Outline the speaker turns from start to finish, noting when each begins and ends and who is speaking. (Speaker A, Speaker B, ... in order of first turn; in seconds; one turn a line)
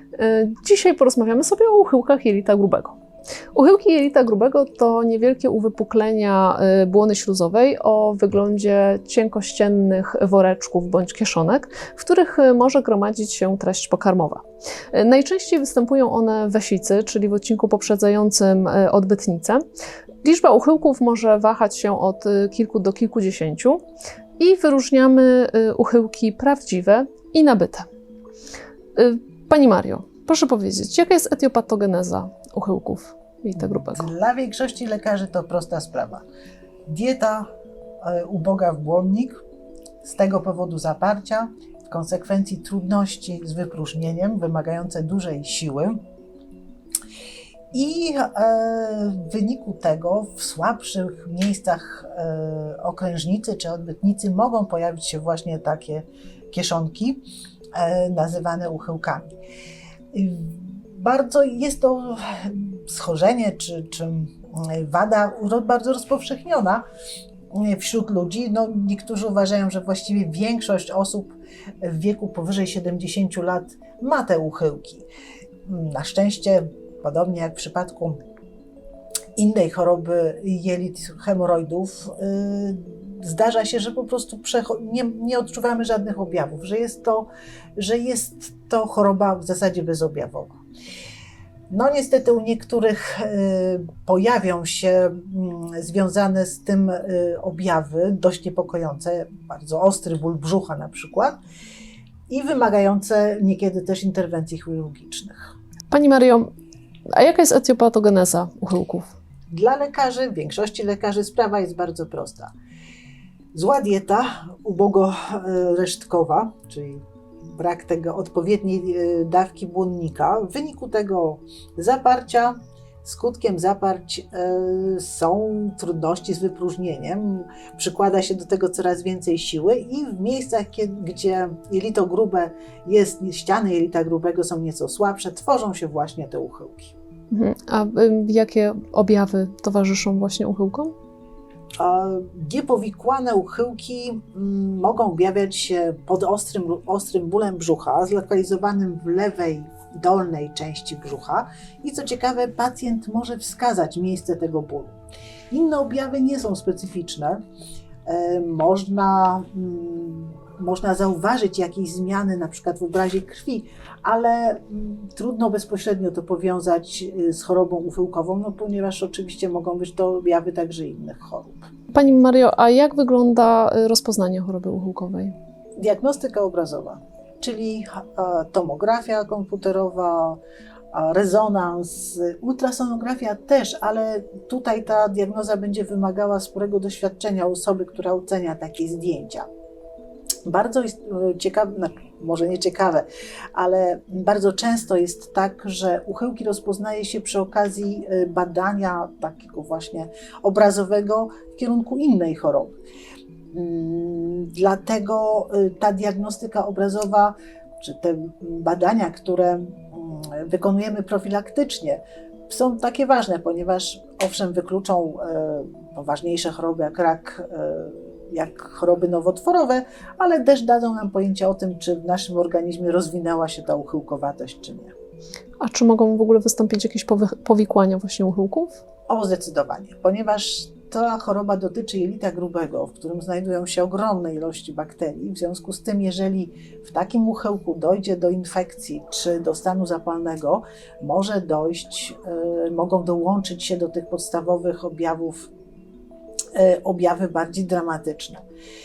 Speaker A: 0.1-3.0
Speaker A: 3.5-19.6
Speaker A: 20.2-23.8
Speaker A: 24.4-27.9
Speaker A: 28.9-34.1
Speaker B: 33.7-36.2
Speaker B: 36.9-37.5
Speaker B: 38.0-39.4
Speaker B: 40.0-46.0
Speaker B: 47.7-59.2
Speaker B: 60.1-66.8
Speaker B: 67.5-75.1
Speaker B: 75.6-78.2
Speaker B: 79.3-90.6
Speaker B: 91.7-101.4
Speaker B: 102.3-105.5
Speaker A: 105.9-106.5
Speaker A: 107.1-109.1
Speaker B: 109.5-112.5
Speaker B: 113.5-136.9
Speaker A: 137.3-140.9
Speaker B: 141.8-154.9
Speaker B: 155.5-157.4
Speaker B: 158.1-171.7
Speaker A: 171.9-175.3
Speaker B: 175.8-180.4
Speaker B: 180.9-189.5
Speaker B: 190.4-202.8
Speaker B: 203.5-224.9
Speaker A: 225.6-228.8
Speaker B: 229.1-245.5
Speaker B: 246.5-248.4